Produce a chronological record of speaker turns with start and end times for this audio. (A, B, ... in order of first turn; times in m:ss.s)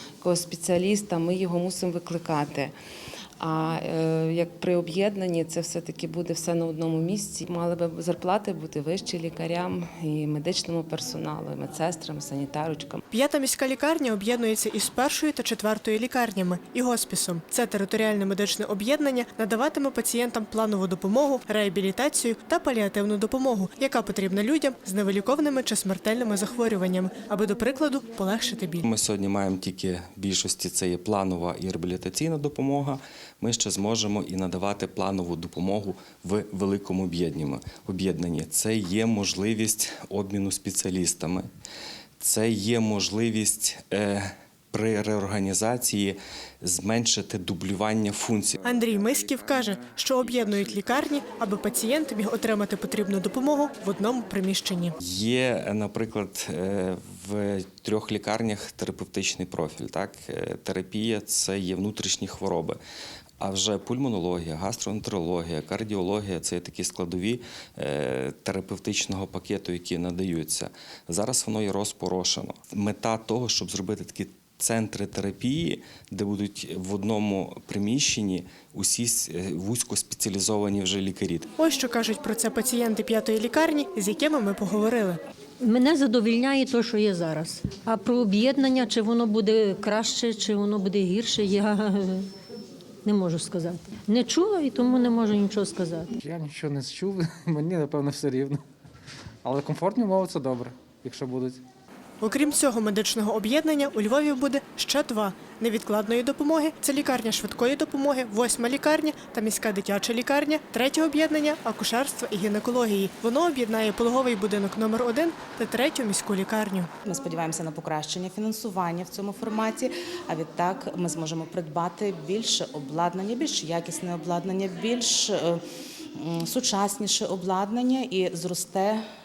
0:00.2-0:02.7 A
0:03.4-0:13.0 A
0:13.1-0:28.8 B
0:28.8-0:41.5 C
0:42.2-0:48.6 C
0:48.6-0:55.0 B
0:55.0-1:02.8 C
1:03.4-1:21.5 C
1:21.6-1:25.2 B
1:25.6-1:32.3 D
1:33.0-1:36.1 D
1:36.2-1:38.6 E
1:39.4-1:41.6 E
1:42.2-1:56.9 B
2:00.3-2:03.1 F
2:07.1-2:07.9 F